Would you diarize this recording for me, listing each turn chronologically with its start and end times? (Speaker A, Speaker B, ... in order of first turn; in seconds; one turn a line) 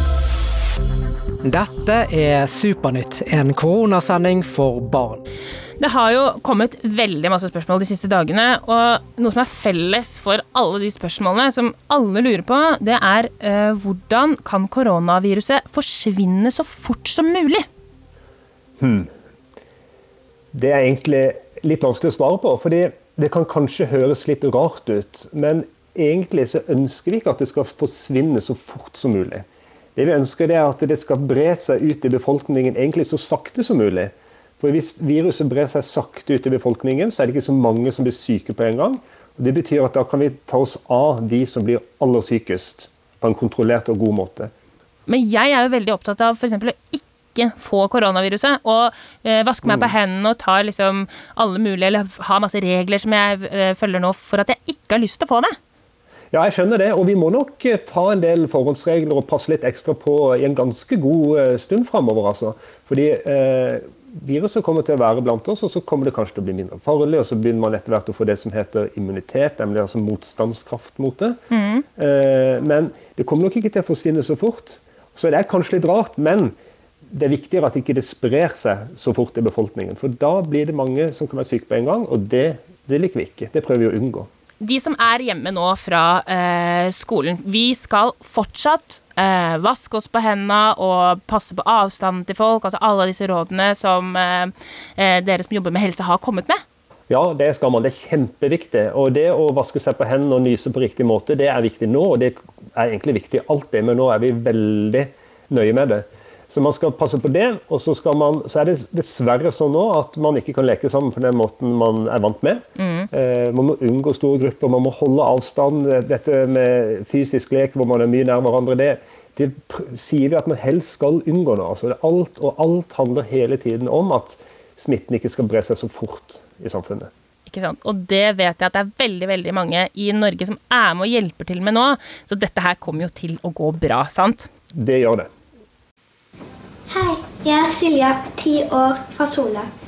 Speaker A: 1.4-5.2
Speaker B: 5.8-17.7
Speaker C: 18.8-19.1
Speaker C: 20.5-29.4
Speaker C: 30.0-44.5
Speaker B: 45.1-55.5
Speaker C: 49.6-49.9
Speaker C: 56.3-71.4
Speaker B: 71.5-71.8
Speaker C: 72.0-76.5
Speaker C: 77.1-84.3
Speaker B: 84.6-96.6
Speaker C: 97.1-127.1
Speaker B: 112.8-113.1
Speaker B: 127.5-134.5
Speaker C: 134.8-135.3
Speaker D: 136.9-139.7